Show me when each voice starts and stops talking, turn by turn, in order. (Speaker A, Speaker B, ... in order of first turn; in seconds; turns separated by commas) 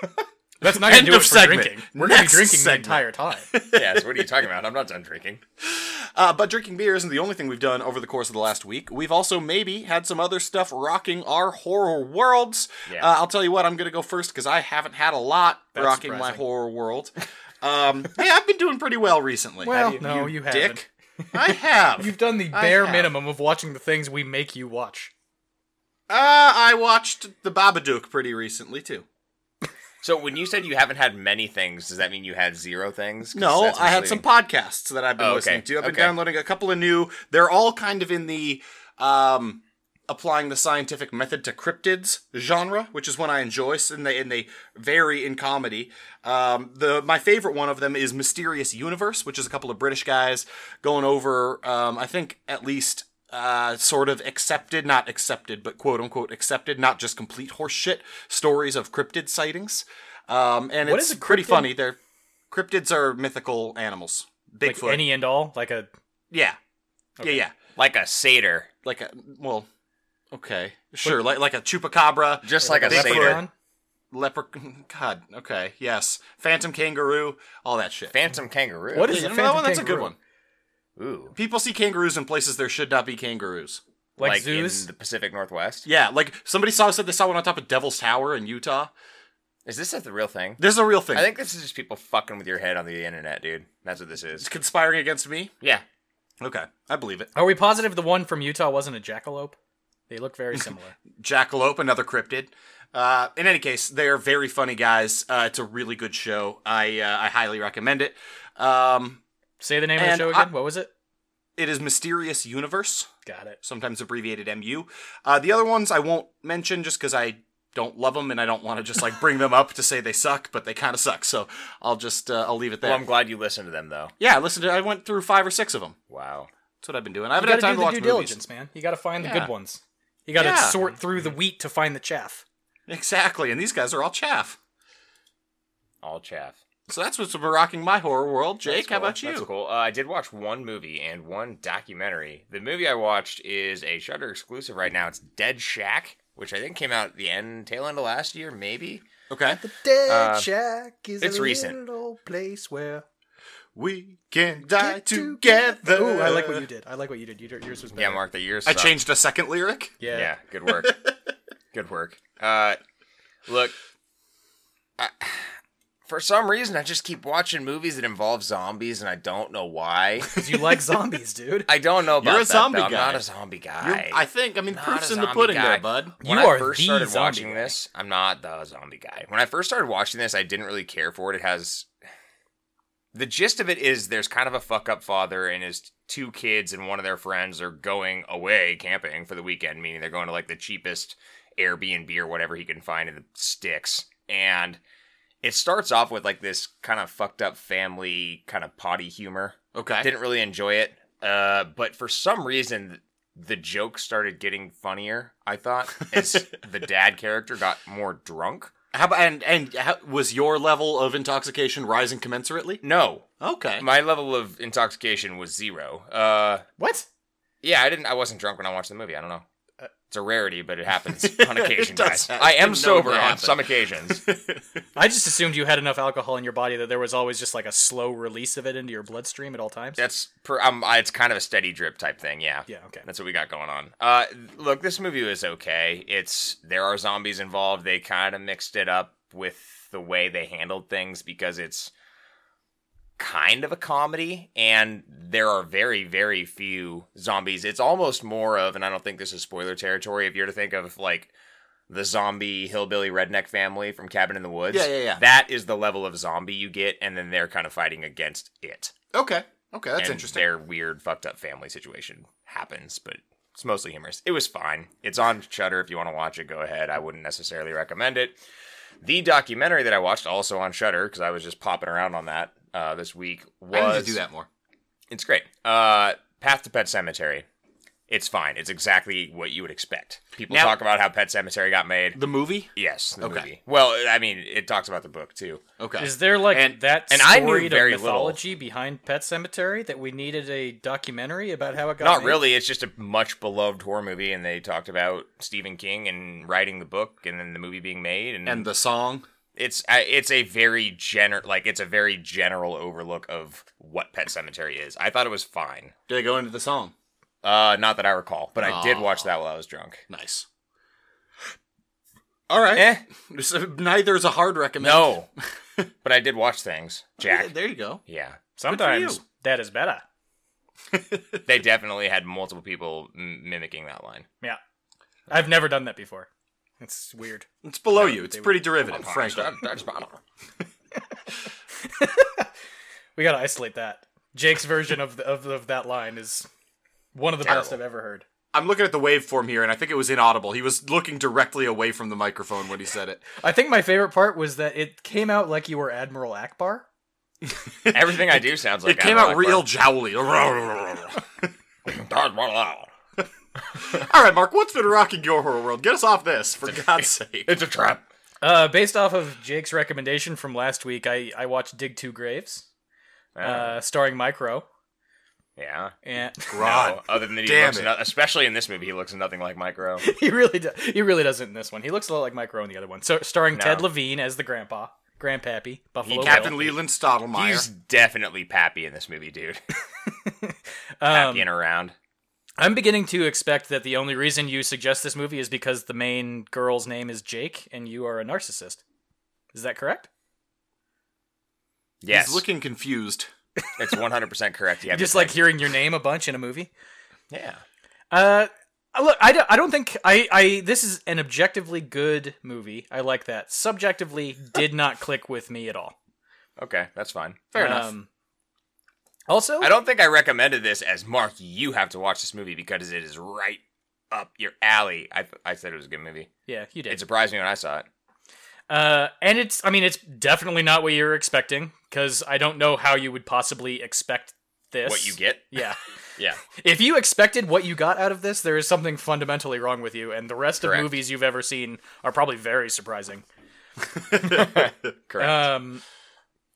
Speaker A: 0.6-3.5, Speaker B: 0.6-4.3, Speaker C: 3.7-5.4, Speaker B: 5.6-22.1, Speaker A: 15.8-16.4, Speaker A: 19.6-20.8, Speaker A: 22.0-25.1, Speaker C: 22.5-23.1, Speaker B: 26.1-29.1, Speaker C: 30.0-34.2, Speaker B: 33.3-62.0, Speaker C: 35.2-36.1, Speaker A: 60.8-61.8, Speaker B: 62.5-65.1, Speaker A: 64.6-65.9, Speaker B: 66.3-66.6, Speaker B: 67.2-67.5, Speaker C: 67.8-68.7, Speaker B: 68.8-69.7, Speaker B: 70.3-73.4, Speaker C: 72.4-73.4, Speaker A: 72.6-73.5, Speaker B: 74.1-78.1, Speaker C: 78.1-79.2, Speaker A: 78.9-80.1, Speaker B: 79.0-80.2, Speaker C: 81.0-81.4, Speaker B: 81.3-83.8, Speaker A: 84.2-84.9, Speaker C: 84.2-85.9, Speaker B: 85.8-88.9, Speaker C: 89.7-94.5, Speaker B: 90.6-91.3, Speaker B: 94.4-95.5, Speaker B: 96.4-97.3, Speaker A: 97.3-99.6, Speaker A: 100.1-101.0, Speaker B: 101.2-109.2, Speaker A: 109.6-110.9, Speaker B: 110.0-110.5, Speaker B: 111.6-113.1, Speaker A: 113.3-113.6, Speaker B: 113.6-123.1, Speaker C: 122.8-124.1, Speaker B: 124.2-126.0, Speaker C: 126.1-126.5, Speaker B: 126.8-128.4, Speaker A: 127.4-132.4, Speaker C: 129.2-129.5, Speaker B: 130.4-130.8, Speaker B: 132.9-134.6, Speaker C: 136.0-136.6, Speaker B: 136.9-139.5, Speaker C: 138.7-149.0, Speaker B: 149.3-149.6, Speaker A: 149.5-153.1, Speaker C: 150.1-150.5, Speaker C: 151.2-151.8, Speaker B: 153.8-156.7, Speaker A: 154.8-158.2, Speaker C: 157.9-158.9, Speaker B: 158.7-160.0, Speaker A: 160.0-160.3, Speaker C: 160.1-161.0, Speaker B: 160.8-161.1, Speaker C: 161.7-162.8, Speaker C: 163.5-163.7, Speaker C: 165.0-165.5, Speaker C: 166.1-170.4, Speaker A: 170.3-171.7, Speaker C: 171.7-181.9, Speaker B: 172.2-173.2, Speaker B: 173.8-176.2, Speaker A: 176.2-177.8, Speaker C: 183.1-194.8, Speaker C: 195.4-208.7, Speaker B: 199.8-200.1, Speaker B: 208.9-212.8, Speaker C: 212.8-216.7, Speaker B: 213.4-213.8, Speaker A: 216.8-217.1, Speaker C: 217.6-219.4, Speaker C: 220.1-224.2, Speaker B: 221.1-224.6, Speaker A: 225.0-230.0, Speaker C: 230.0-241.9, Speaker A: 232.7-233.1, Speaker C: 243.2-251.3, Speaker C: 251.9-258.9, Speaker B: 254.7-255.2, Speaker B: 259.1-260.4, Speaker C: 260.0-268.4, Speaker C: 269.0-274.2, Speaker B: 273.7-274.5, Speaker C: 275.1-277.4, Speaker C: 278.1-282.2, Speaker B: 280.5-280.8, Speaker B: 282.1-283.5, Speaker C: 282.8-285.6, Speaker B: 285.8-286.8, Speaker A: 286.0-292.4, Speaker C: 287.1-288.4, Speaker C: 292.0-298.7, Speaker B: 298.5-299.3, Speaker C: 299.6-305.9, Speaker B: 306.1-306.9, Speaker C: 307.4-310.0, Speaker B: 308.6-309.3, Speaker B: 310.1-310.5, Speaker B: 312.5-315.2, Speaker C: 312.8-313.0, Speaker C: 314.8-315.3, Speaker C: 316.0-317.5, Speaker B: 317.2-318.0, Speaker C: 318.1-318.4, Speaker A: 318.6-320.0, Speaker B: 318.7-319.2, Speaker B: 320.9-321.4, Speaker C: 321.4-324.3, Speaker A: 325.3-326.3, Speaker A: 326.8-327.5, Speaker B: 327.6-329.6, Speaker A: 328.0-328.6, Speaker C: 328.8-330.2, Speaker A: 331.8-332.5, Speaker A: 333.2-336.5, Speaker A: 337.1-338.2, Speaker C: 337.4-337.8, Speaker B: 338.5-343.2, Speaker A: 343.4-346.9, Speaker B: 347.5-351.2, Speaker C: 347.9-349.7, Speaker C: 351.9-352.9, Speaker B: 353.8-357.5, Speaker C: 356.7-358.0, Speaker A: 358.4-362.6, Speaker C: 363.4-363.8, Speaker A: 363.4-364.7, Speaker C: 365.6-365.9, Speaker A: 366.1-366.5, Speaker B: 366.5-367.9, Speaker C: 366.6-370.1, Speaker A: 370.0-376.7, Speaker C: 373.6-373.9, Speaker C: 376.1-376.7, Speaker B: 376.2-377.7, Speaker C: 377.3-379.6, Speaker A: 380.1-381.5, Speaker C: 381.1-381.9, Speaker A: 382.6-388.8, Speaker A: 389.5-390.1, Speaker C: 392.0-392.4, Speaker B: 392.1-393.3, Speaker C: 393.8-395.5, Speaker A: 394.9-396.7, Speaker C: 397.3-397.6, Speaker A: 398.1-405.9, Speaker C: 406.6-407.9, Speaker B: 407.5-407.9, Speaker A: 407.6-408.1, Speaker A: 409.3-409.7, Speaker C: 409.6-413.6, Speaker C: 414.1-416.3, Speaker A: 416.5-417.0, Speaker C: 416.9-417.9, Speaker A: 418.7-425.8, Speaker C: 424.9-425.5, Speaker A: 426.5-433.2, Speaker C: 430.6-431.0, Speaker C: 434.2-435.5, Speaker A: 435.2-435.8